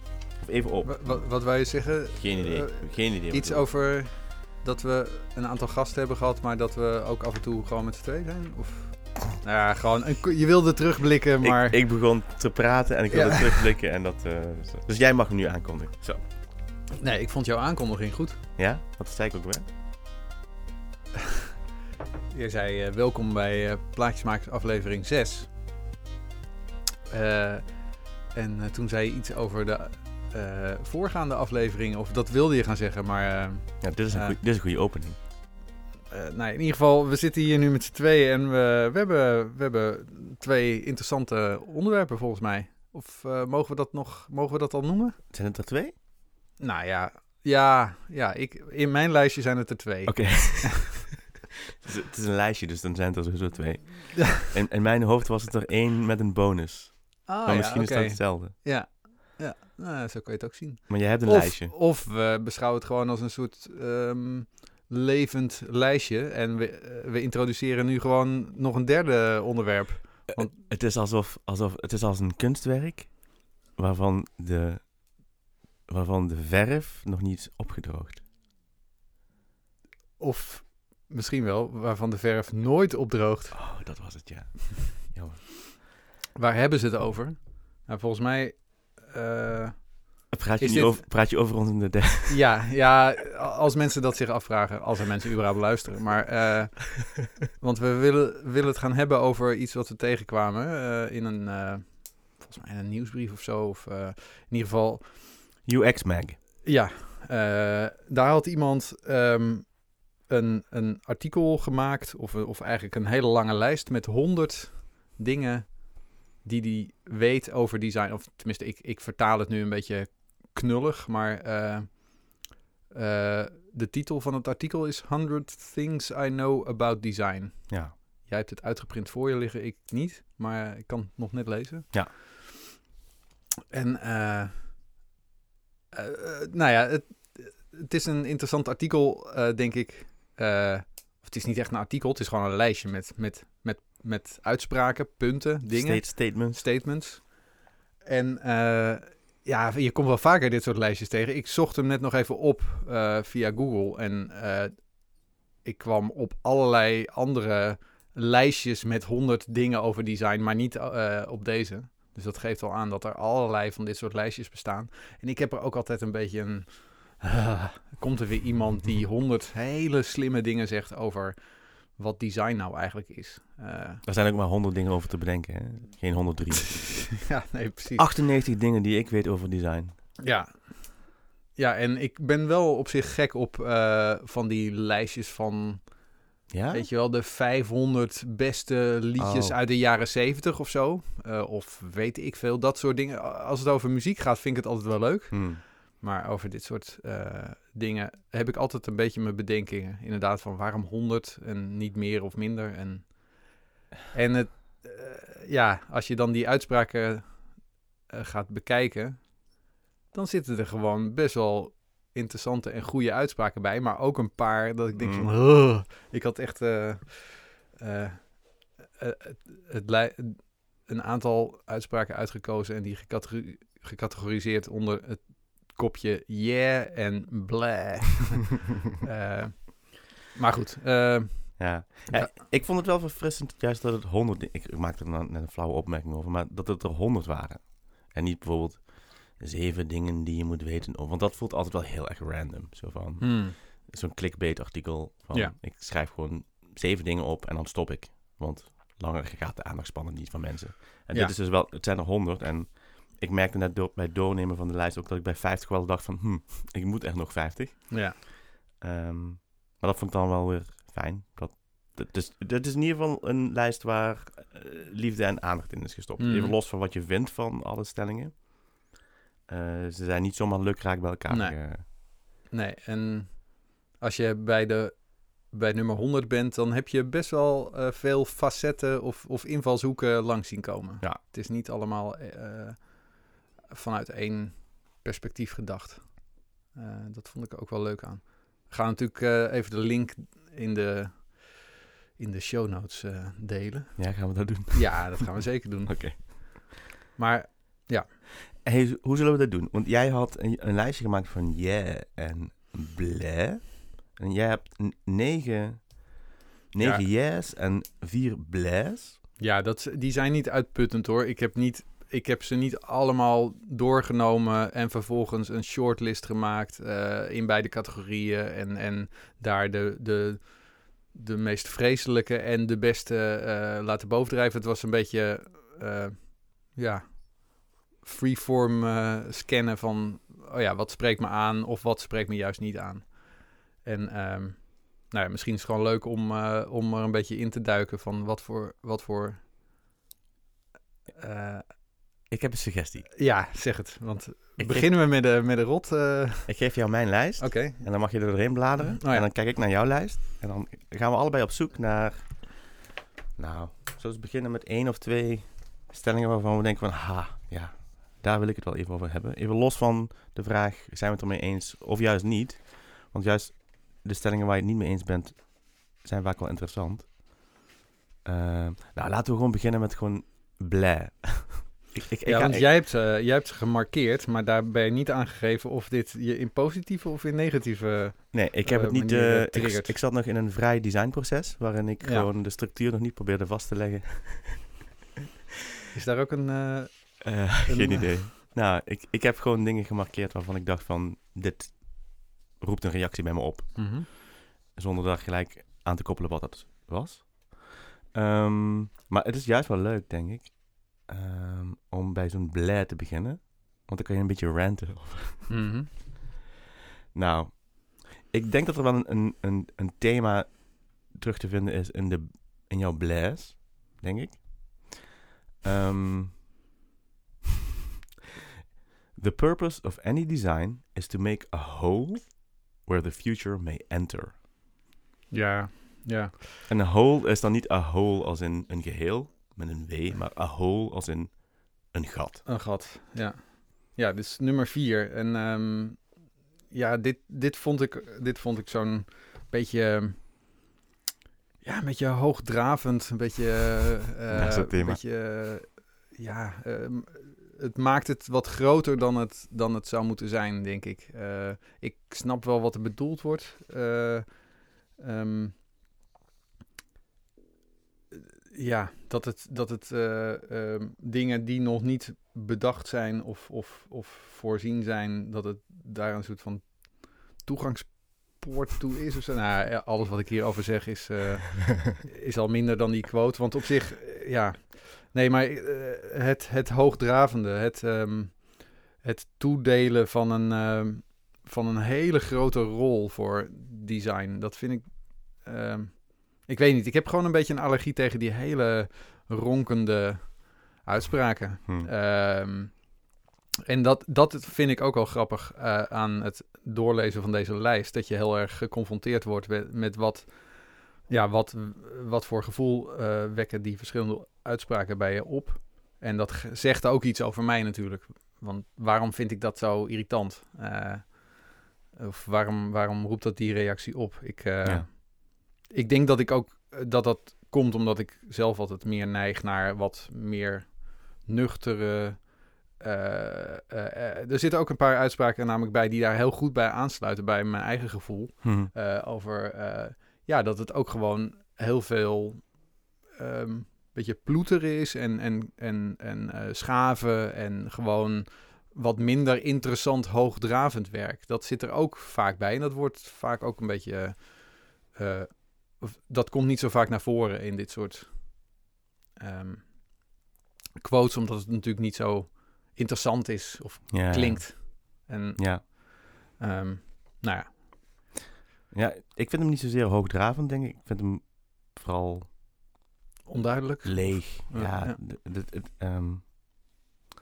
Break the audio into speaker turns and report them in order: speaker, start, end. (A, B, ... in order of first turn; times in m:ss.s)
0:00.4-0:03.7 A
0:00.8-0:11.8 B
0:11.4-0:16.3 A
0:13.1-0:13.6 B
0:17.0-0:18.4 B
0:18.6-0:19.7 A
0:22.3-0:25.5 B
0:27.1-0:34.4 B
0:33.8-0:35.2 A
0:36.1-0:45.2 B
0:45.3-0:45.9 A
0:46.6-0:50.9 B
0:50.0-0:51.1 A
0:51.8-0:58.5 A
0:57.2-1:10.5 B
1:00.9-1:01.7 A
1:10.3-1:18.2 A
1:20.2-1:24.0 B
1:23.5-1:25.5 A
1:26.4-1:31.1 B
1:30.3-1:32.4 A
1:32.3-1:45.5 B
1:45.6-1:46.4 A
1:46.6-2:12.4 B
2:07.7-2:07.9 A
2:13.7-2:14.9 B
2:15.9-2:54.0 B
2:25.7-2:26.6 A
2:54.0-2:57.3 A
2:57.2-2:58.1 B
2:57.9-3:00.0 A
3:00.2-3:52.3 B
3:06.5-3:06.9 A
3:09.2-3:09.6 A
3:15.3-3:15.6 A
3:34.9-3:35.3 A
3:51.6-4:28.9 A
4:03.2-4:03.6 B
4:17.9-4:18.2 B
4:26.2-4:26.6 B
4:29.5-4:31.8 A
4:31.3-4:58.1 B
4:54.0-4:56.5 A
4:58.5-5:09.2 A
5:06.8-5:07.0 B
5:09.4-5:39.4 B
5:41.1-5:42.0 B
5:42.3-5:43.2 A
5:43.2-5:46.8 B
5:44.6-5:44.9 A
5:46.5-5:52.8 A
5:47.4-5:49.3 B
5:53.4-6:07.2 A
6:08.2-6:12.7 A
6:12.2-6:20.0 B
6:18.3-6:24.9 A
6:22.0-6:22.3 B
6:25.9-6:28.2 B
6:27.2-6:45.5 A
6:33.8-6:34.1 B
6:45.5-6:45.9 B
6:47.1-6:55.1 A
6:55.6-6:56.4 A
6:59.1-7:04.4 A
7:05.3-7:06.3 B
7:06.7-7:12.4 A
7:12.4-7:20.6 B
7:21.6-7:35.6 B
7:24.3-7:25.0 A
7:38.5-8:13.0 B
8:13.7-9:08.6 B
8:48.4-8:48.7 A
9:09.2-9:10.2 B
9:10.8-9:17.7 B
9:13.9-9:14.8 A
9:15.4-9:15.6 A
9:18.7-9:22.4 A
9:23.3-9:25.0 B
9:23.8-9:26.5 A